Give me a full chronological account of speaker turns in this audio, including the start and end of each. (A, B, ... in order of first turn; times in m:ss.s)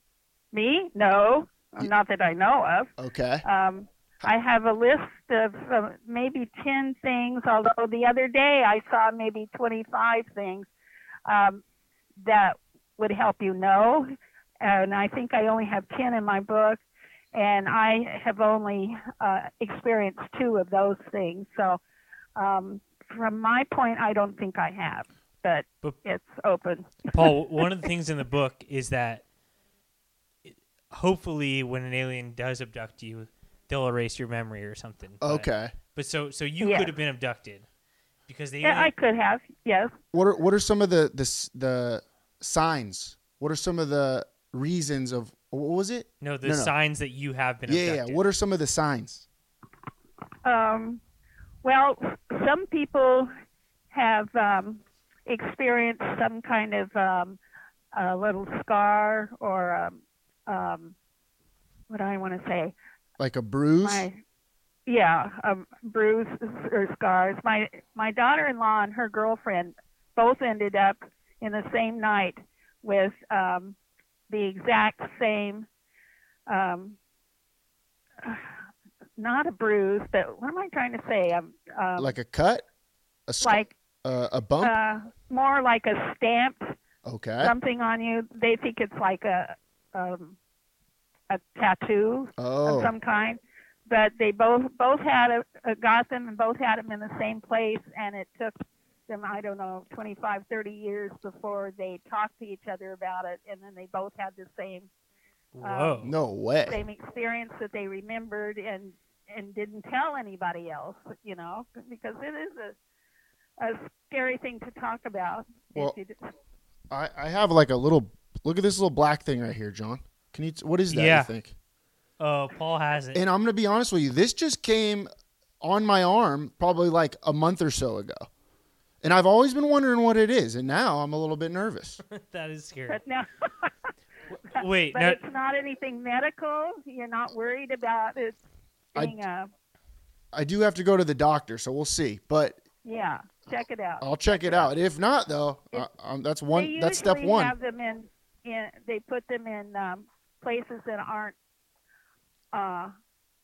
0:00.5-0:02.9 A
0:03.0-0:03.4 B
0:03.4-0:10.7 A
0:11.3-0:11.6 A
0:12.2-0:14.1 A
0:14.6-0:16.8 A
0:17.3-0:21.8 A
0:22.4-0:27.2 A
0:27.1-0:29.2 C
0:30.5-0:37.7 C
0:35.2-0:35.7 B
0:36.6-0:36.9 A
0:38.3-0:38.9 C
0:38.6-0:39.9 A
0:40.1-0:46.7 B
0:46.2-0:48.2 C
0:47.7-0:49.3 B
0:50.4-0:51.0 A
0:51.6-0:53.3 A
0:53.9-0:57.4 A
0:57.9-1:01.0 A
1:01.9-1:02.8 A
1:03.2-1:04.1 B
1:03.8-1:04.2 A
1:04.9-1:13.8 A
1:14.3-1:15.7 A
1:16.5-1:17.0 A
1:18.2-1:18.5 A
1:19.2-1:22.2 A
1:22.0-1:22.6 B
1:23.3-1:24.8 B
1:23.4-1:23.7 A
1:24.6-1:26.8 A
1:27.0-1:27.5 B
1:27.4-1:30.4 A
1:31.3-1:44.9 A
1:32.4-1:32.9 B
1:45.5-1:46.1 C
1:45.6-1:46.0 A
1:46.0-1:46.8 B
1:46.6-1:52.8 A
1:53.6-1:56.3 A
1:56.9-2:01.5 B
2:00.9-2:01.3 C
2:02.2-2:03.2 C
2:03.1-2:05.1 B
2:05.6-2:08.3 B
2:09.0-2:12.0 B
2:12.1-2:13.0 C
2:12.9-2:13.7 A
2:14.5-2:15.2 C
2:14.6-2:18.4 A
2:19.0-2:19.5 A
2:20.3-2:22.6 B
2:22.8-2:24.7 A
2:24.0-2:27.5 B
2:26.5-2:31.4 A
2:32.5-2:32.9 A